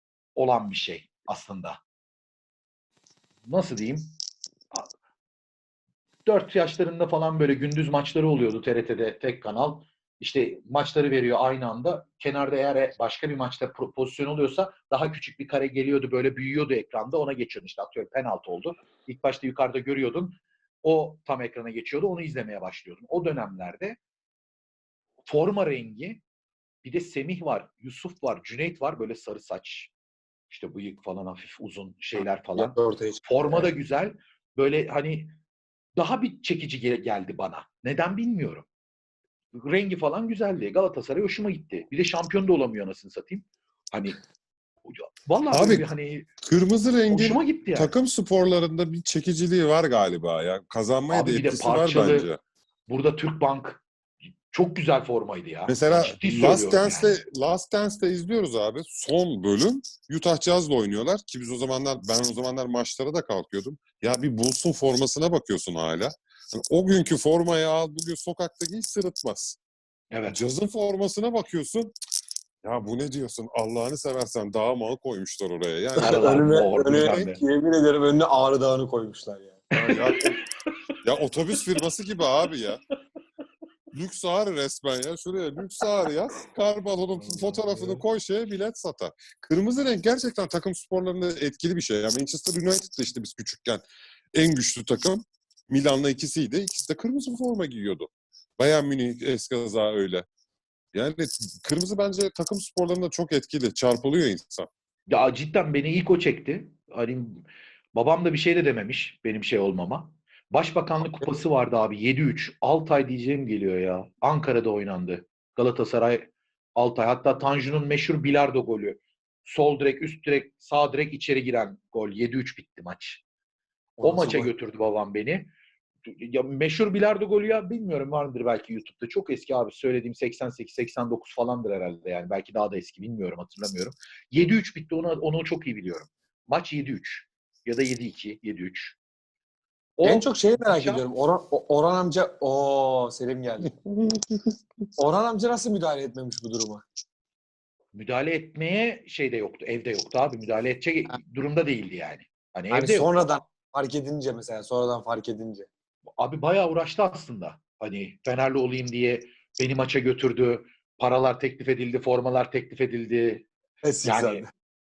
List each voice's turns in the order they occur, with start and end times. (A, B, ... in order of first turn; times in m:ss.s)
0:00.4-0:01.8 A
0:03.4-0:04.1 A
0:06.2-0:24.0 A
0:25.2-0:26.2 A
0:26.8-0:29.9 A
0:30.5-0:35.3 A
0:32.6-0:33.7 B
0:36.0-0:38.7 A
0:39.5-0:44.2 A
0:44.8-0:46.3 A
0:45.5-0:45.9 C
0:46.4-0:52.4 C
0:47.1-0:47.9 A
0:51.1-0:52.3 A
0:52.9-0:53.8 A
0:54.5-0:57.2 A
0:55.7-1:09.6 C
1:10.1-1:10.4 A
1:10.2-1:11.9 C
1:12.6-1:17.3 C
1:15.9-1:20.1 B
1:16.0-1:17.4 A
1:19.9-1:20.4 C
1:20.1-1:20.7 A
1:21.0-1:22.8 C
1:23.9-1:40.2 C
1:27.3-1:28.0 A
1:40.9-1:44.7 C
1:45.1-2:03.2 A
2:04.0-2:04.5 B
2:04.0-2:05.5 A
2:06.0-2:19.0 A
2:20.0-2:21.0 A
2:20.0-2:23.7 B
2:23.9-2:24.4 C
2:25.0-2:26.8 B
2:27.9-2:33.4 A
2:32.7-2:35.7 B
2:36.2-2:43.5 A
2:43.8-2:44.5 B
2:44.0-2:44.4 A